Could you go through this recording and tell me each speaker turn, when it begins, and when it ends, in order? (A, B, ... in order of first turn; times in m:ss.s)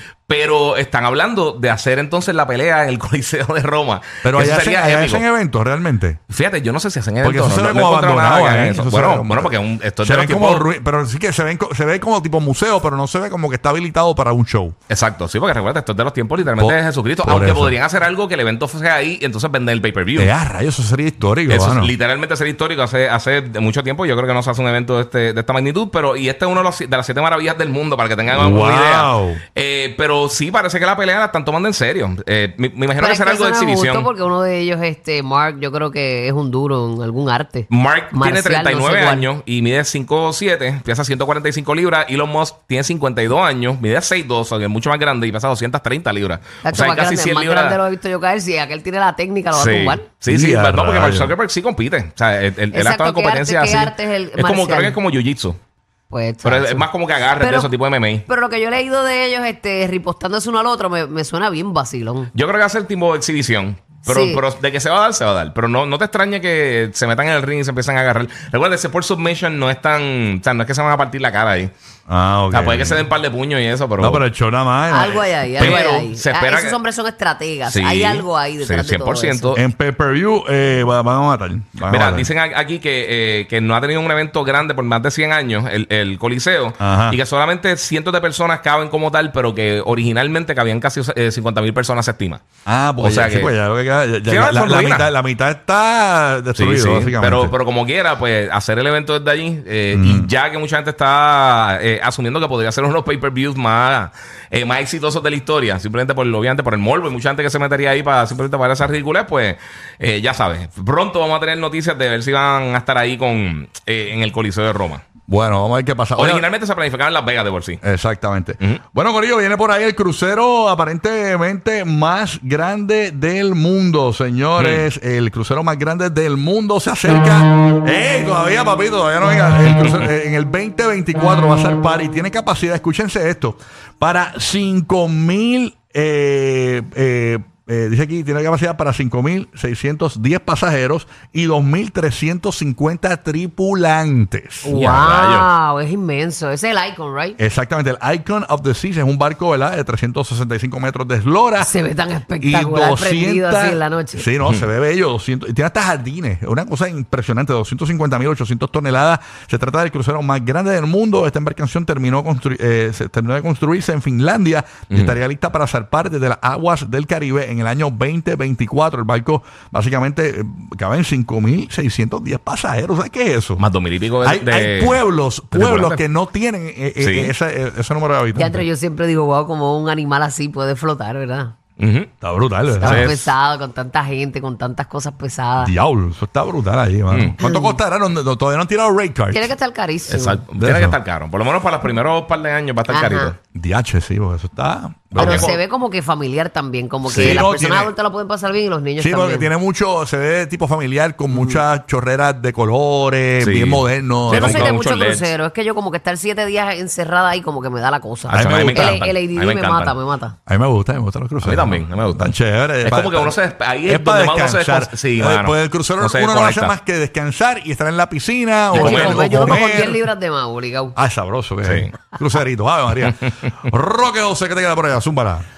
0:00.3-0:05.2 A
0:04.2-0:06.2 B
0:06.3-0:10.7 A
0:07.2-0:14.8 B
0:14.9-0:20.3 A
0:16.6-0:17.8 B
0:20.2-0:21.9 B
0:21.5-0:34.1 A
0:28.3-0:29.4 B
0:33.0-0:39.3 C
0:37.7-0:47.8 A
0:46.6-0:50.1 C
0:49.5-0:55.6 A
0:50.3-0:51.4 B
0:52.7-0:55.0 C
0:56.1-0:56.9 C
0:56.4-0:58.3 A
0:57.4-0:57.7 C
0:58.3-1:02.3 C
1:02.3-1:11.7 A
1:04.1-1:04.4 C
1:12.1-1:13.1 B
1:12.5-1:14.2 A
1:14.0-1:15.8 B
1:14.9-1:19.6 C
1:15.6-1:16.8 A
1:17.7-1:19.6 A
1:19.6-1:22.3 B
1:21.9-1:32.4 A
1:26.8-1:27.2 B
1:32.7-1:37.5 B
1:33.0-1:33.5 A
1:34.3-1:35.1 A
1:36.6-1:55.1 A
1:39.9-1:40.3 B
1:55.3-1:56.5 B
1:56.2-1:57.8 A
1:57.8-2:24.7 B
2:04.6-2:04.8 A
2:24.6-2:27.4 C
2:24.7-2:25.5 A
2:27.4-2:31.7 B
2:31.6-2:34.3 C
2:32.4-2:53.7 B
2:44.9-2:45.2 A
2:53.6-2:56.0 A
2:54.2-2:58.7 B
2:57.0-2:57.3 A
2:58.4-3:01.5 C
3:01.8-3:02.1 A
3:02.2-3:03.2 B
3:02.8-3:05.7 C
3:02.8-3:03.3 A
3:05.6-3:09.5 B
3:07.1-3:07.4 A
3:07.4-3:07.8 C
3:09.3-3:10.4 C
3:10.1-3:13.4 A
3:10.6-3:11.0 B
3:12.9-3:13.3 C
3:13.5-3:15.6 B
3:15.2-3:19.5 C
3:15.2-3:15.6 A
3:17.1-3:17.9 B
3:17.1-3:17.4 A
3:19.0-3:24.8 B
3:21.3-3:21.6 C
3:23.4-3:25.3 A
3:24.3-3:30.4 C
3:28.3-3:29.1 B
3:28.3-3:30.0 A
3:30.5-3:40.0 B
3:31.4-3:36.8 A
3:38.7-3:41.0 C
3:38.7-3:39.6 A
3:41.0-3:45.4 B
3:41.6-3:41.9 A